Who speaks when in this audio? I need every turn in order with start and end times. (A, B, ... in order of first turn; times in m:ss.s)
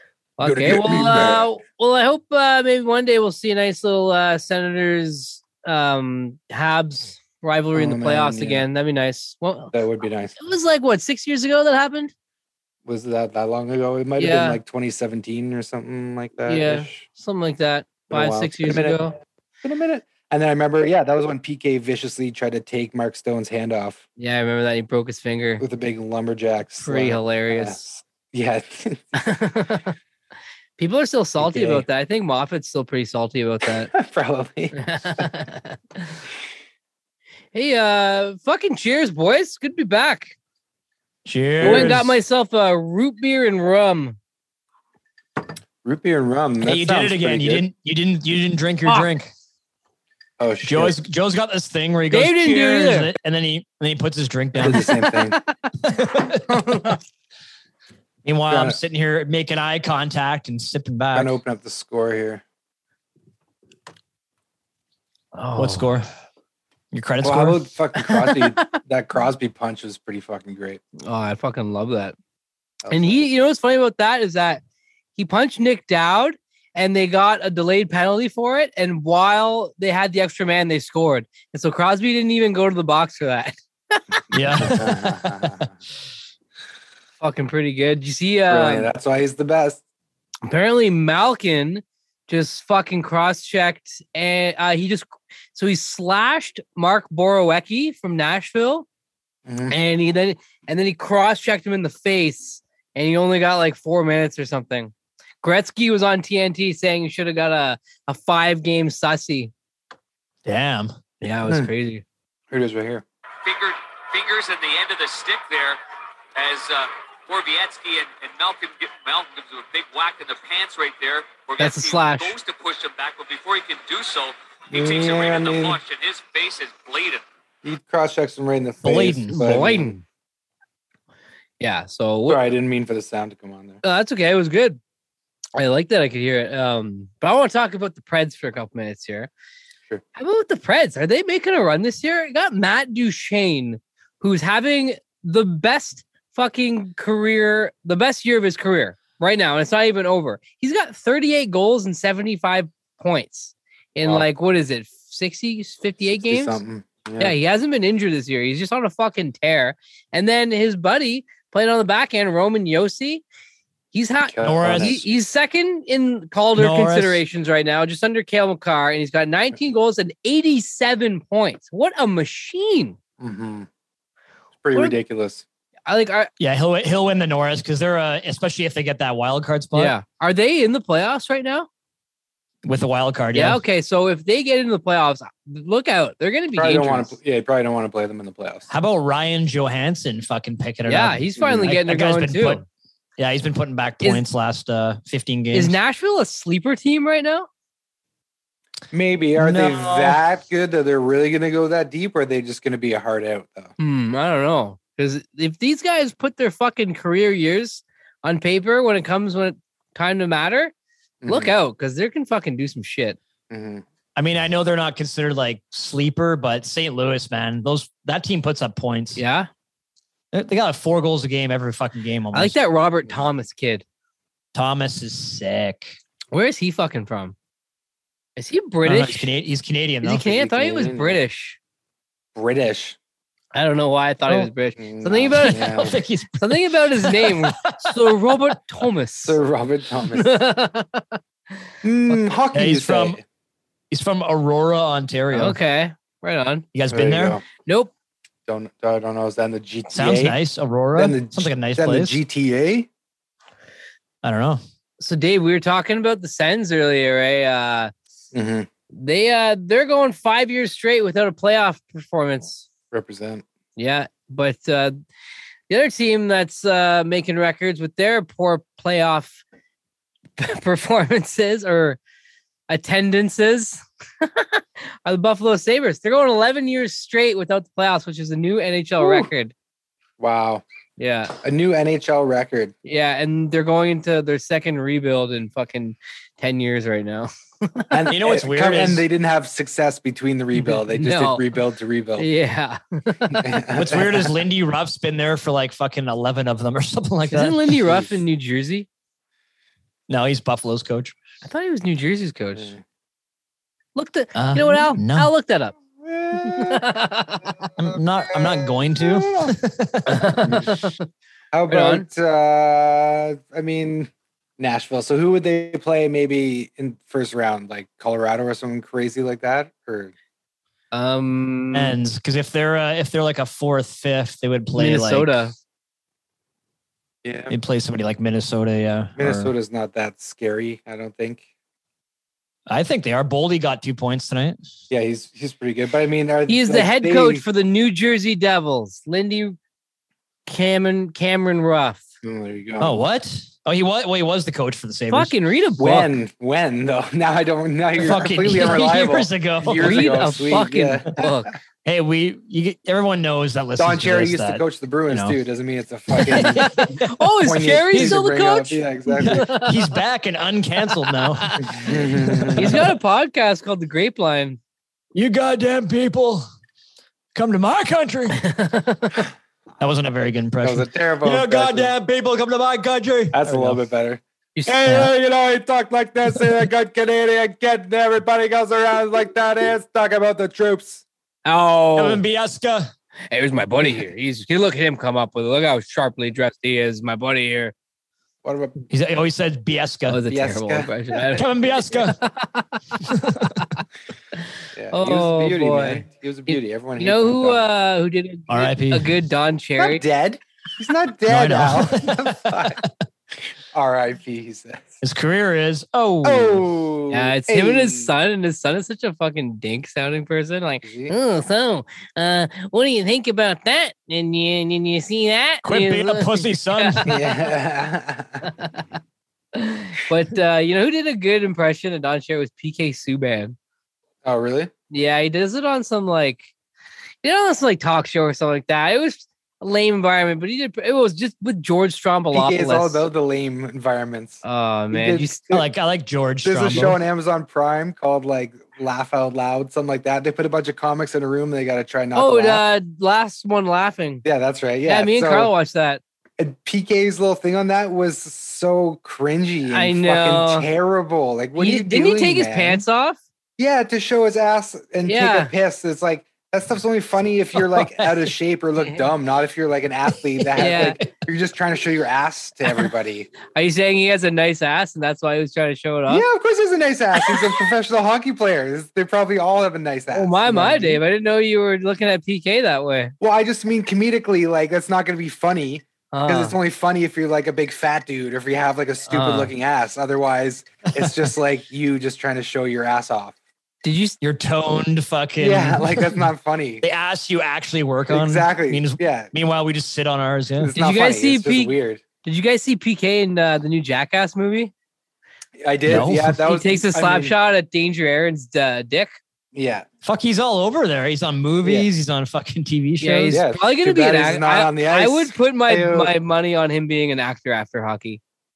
0:00.4-0:09.7 A
0:00.4-0:01.5 B
0:07.7-0:08.7 B
0:09.7-0:10.4 B
0:10.4-0:12.1 A
0:12.9-0:17.0 B
0:14.2-0:14.6 A
0:16.5-0:19.2 A
0:18.1-0:19.0 B
0:19.6-0:24.0 B
0:24.2-0:25.6 A
0:25.6-0:29.2 B
0:26.8-0:28.0 A
0:29.2-0:30.0 A
0:30.8-0:33.9 A
0:31.4-0:31.8 B
0:33.9-0:35.2 B
0:34.8-0:36.2 A
0:37.5-0:40.4 A
0:41.2-0:42.1 C
0:41.6-0:42.0 B
0:41.6-0:44.2 A
0:45.8-0:47.6 B
0:46.6-0:49.3 C
0:50.4-0:51.0 B
0:50.6-0:55.0 C
0:52.1-0:53.1 A
0:54.6-0:55.4 B
0:55.8-0:56.4 C
0:56.5-0:57.0 A
0:58.2-1:01.4 C
0:58.5-0:58.8 B
1:01.1-1:02.4 B
1:05.4-1:06.0 A
1:05.6-1:06.1 C
1:06.9-1:07.6 C
1:07.2-1:10.8 B
1:08.1-1:08.7 A
1:11.0-1:12.2 A
1:12.8-1:13.3 B
1:12.9-1:14.6 A
1:15.2-1:24.7 A
1:24.3-1:25.5 C
1:24.6-1:25.7 B
1:27.2-1:28.9 A
1:28.5-1:29.8 B
1:30.4-1:38.9 A
1:39.5-1:39.8 B
1:39.7-1:49.5 A
1:50.5-1:50.9 C
1:51.2-1:52.0 A
1:52.5-1:53.0 B
1:53.4-1:55.8 D
1:56.4-2:07.2 D
2:01.6-2:02.4 A
2:04.7-2:05.8 B
2:07.6-2:10.0 B
2:08.8-2:09.5 C
2:09.3-2:10.0 A
2:11.6-2:12.4 A
2:12.3-2:13.8 B
2:13.8-2:14.8 A
2:15.6-2:19.3 A
2:20.2-2:36.6 A
2:36.2-2:37.4 B
2:37.2-2:43.2 A
2:43.9-2:53.0 A
2:44.3-2:45.0 B
2:44.4-2:45.0 C
2:46.6-2:47.2 C
2:53.2-2:53.7 B
2:54.6-2:55.4 B
2:55.9-2:56.3 A
2:56.4-3:00.0 C
2:59.7-3:01.7 A
3:02.6-3:03.6 C
3:03.3-3:07.2 A
3:06.6-3:08.7 B
3:08.7-3:12.6 C
3:10.9-3:12.6 A
3:11.4-3:11.7 B
3:13.2-3:15.8 C
3:15.5-3:17.5 A
3:18.9-3:23.7 B
3:19.4-3:20.2 C
3:23.8-3:30.7 A
3:31.2-3:31.5 B
3:31.3-3:33.2 A
3:33.5-3:33.8 B
3:34.2-3:39.2 C
3:39.2-3:39.5 A
3:40.3-3:42.6 C
3:42.3-3:43.8 A
3:44.5-3:46.0 C
3:46.3-3:47.4 A
3:48.4-3:49.3 A
3:48.8-3:50.2 C
3:50.0-3:51.6 A
3:50.2-3:51.2 B
3:52.4-3:53.0 B
3:53.5-3:59.4 A
3:54.8-3:56.0 B
3:55.4-3:58.0 C
3:59.2-4:00.3 B
4:00.1-4:01.2 A
4:01.8-4:03.2 B
4:02.5-4:03.2 C
4:03.9-4:05.6 C
4:05.3-4:06.6 A
4:06.7-4:07.4 C
4:06.9-4:07.4 B
4:07.7-4:07.9 A
4:08.5-4:10.4 B
4:09.9-4:12.2 C
4:11.0-4:12.9 B
4:14.2-4:14.6 C
4:15.0-4:17.9 A
4:18.3-4:18.7 B
4:18.9-4:22.7 A
4:22.9-4:23.4 B
4:23.8-4:25.0 A
4:25.7-4:29.4 A
4:30.4-4:32.0 A
4:32.7-4:39.5 A
4:39.0-4:39.3 B
4:40.2-4:40.6 B
4:41.0-4:41.4 A
4:41.4-4:42.7 B
4:42.8-4:47.9 A
4:47.9-4:52.3 B
4:48.1-4:49.0 C
4:50.6-4:51.4 A
4:52.2-4:53.6 A
4:53.3-4:54.3 B
4:53.7-4:57.8 C
4:57.3-4:58.9 A
5:00.1-5:01.2 C
5:01.4-5:02.7 A
5:04.0-5:05.8 A
5:04.4-5:05.3 C
5:06.0-5:06.8 B
5:06.4-5:07.5 A
5:07.8-5:10.5 C
5:07.8-5:09.5 B
5:10.1-5:11.1 A
5:11.5-5:20.1 B
5:11.7-5:12.1 A
5:20.9-5:22.0 A
5:21.7-5:25.4 C
5:24.8-5:25.5 A
5:27.2-5:27.6 B
5:27.5-5:29.5 C
5:29.2-5:31.4 B
5:32.7-5:34.6 C
5:34.9-5:37.4 B
5:36.5-5:39.6 A
5:40.5-5:42.0 A
5:42.2-5:43.0 B
5:42.8-5:45.3 C
5:45.1-5:46.1 A
5:45.8-5:51.3 B
5:48.0-5:50.3 C
5:49.7-5:51.6 A
5:51.8-5:55.4 C
5:53.8-5:56.7 B
5:56.1-5:57.3 C
5:56.4-5:59.8 A
5:57.4-5:59.5 B
5:57.9-5:58.2 C
5:59.2-6:02.9 C
6:00.9-6:01.9 A
6:01.7-6:02.9 B
6:02.6-6:04.6 A
6:05.1-6:06.4 C
6:07.4-6:08.4 C
6:08.4-6:09.2 A
6:09.8-6:13.8 C
6:10.6-6:11.9 B
6:13.3-6:21.0 B
6:14.6-6:14.8 A
6:14.8-6:15.1 C
6:21.4-6:22.2 A
6:22.0-6:22.9 C
6:23.3-6:27.8 A
6:28.4-6:28.8 B
6:28.9-6:30.2 C
6:30.1-6:32.8 A
6:30.3-6:31.4 B
6:31.3-6:32.2 C
6:33.0-6:33.6 C
6:34.8-6:37.7 B
6:34.9-6:40.0 A
6:38.5-6:39.2 C
6:39.8-6:42.8 B
6:41.3-6:42.9 C
6:43.7-6:45.0 B
6:45.0-6:46.6 C
6:46.2-6:48.1 B
6:47.1-6:57.3 A
6:50.8-6:51.1 B
6:55.6-6:57.2 C
6:57.1-6:58.5 B
6:58.4-6:58.9 A
6:59.6-7:03.6 A
7:04.2-7:04.7 B
7:04.9-7:06.5 A
7:07.2-7:13.0 A
7:12.3-7:14.4 B
7:14.4-7:15.4 A
7:14.9-7:15.7 B
7:15.5-7:17.0 C
7:16.4-7:22.6 B
7:22.2-7:24.2 A
7:24.2-7:25.5 B
7:24.9-7:26.0 A
7:26.4-7:32.8 B
7:29.7-7:30.7 A
7:31.6-7:33.2 A
7:33.6-7:43.3 B
7:35.1-7:35.5 A
7:40.6-7:41.0 A
7:43.5-7:46.3 A
7:46.1-7:51.0 B
7:50.1-7:53.1 A
7:53.2-8:03.4 B
7:56.1-7:56.6 A
7:59.1-7:59.5 A
8:03.8-8:04.2 A
8:04.2-8:06.2 C
8:05.4-8:06.8 B
8:06.8-8:10.7 C
8:08.1-8:09.3 B
8:10.6-8:12.0 B
8:10.8-8:14.7 A
8:15.6-8:17.4 B
8:15.9-8:16.4 C
8:16.4-8:19.1 A
8:19.5-8:19.9 B
8:20.0-8:23.4 C
8:21.6-8:21.9 B
8:23.0-8:28.2 A
8:23.3-8:26.1 B